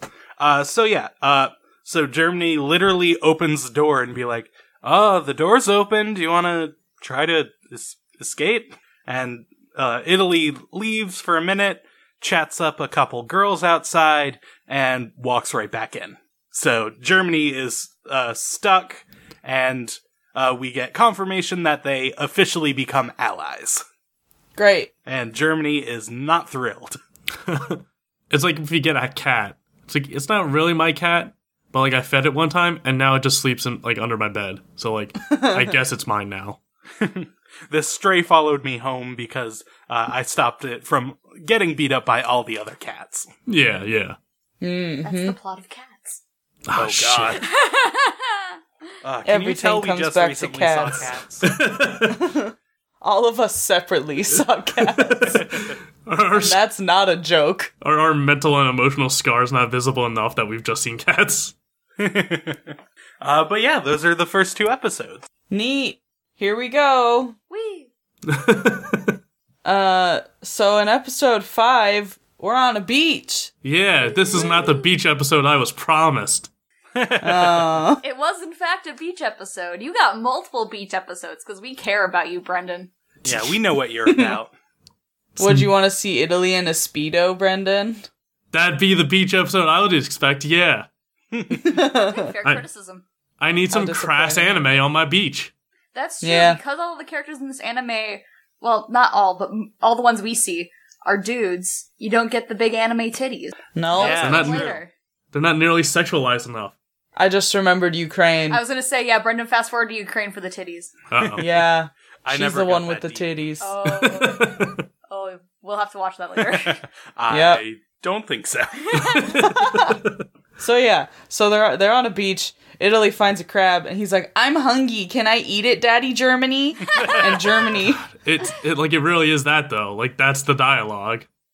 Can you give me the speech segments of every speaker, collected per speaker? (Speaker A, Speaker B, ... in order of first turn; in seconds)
Speaker A: 0.4-23.8, 25.1-27.0, 37.0-43.3, 46.7-47.4, 49.0-51.5, 62.0-65.3, 76.9-77.7, 83.2-84.5, 91.3-91.6, 103.9-104.8, 111.1-111.4, 112.2-113.3, 116.6-119.2, 126.8-127.4
Speaker B: 24.6-24.9, 35.3-35.7, 44.6-45.4, 49.2-51.1, 52.0-55.5, 56.3-57.7, 65.5-67.3, 69.6-73.5, 77.2-78.0, 84.1-84.3, 85.4-88.1, 91.5-92.3, 93.7-94.6, 96.2-96.6, 103.7-104.3, 107.2-108.6, 111.4-113.8, 117.3-117.6, 119.3-120.0, 120.6-128.0
Speaker C: 27.4-36.6, 43.5-44.2, 46.7-47.4, 51.4-52.2, 54.8-56.6, 57.8-61.5, 68.3-69.1, 73.6-76.5, 85.3-85.7, 88.5-90.9, 93.4-95.5, 104.1-104.7, 105.3-106.7, 111.1-111.5, 113.9-114.8, 119.0-120.2, 127.9-131.3
Speaker D: 45.0-46.2, 47.3-48.5, 67.5-67.9, 78.0-82.9, 91.9-93.0, 95.9-104.9, 108.5-110.9, 113.6-116.8, 118.8-119.4, 127.0-127.4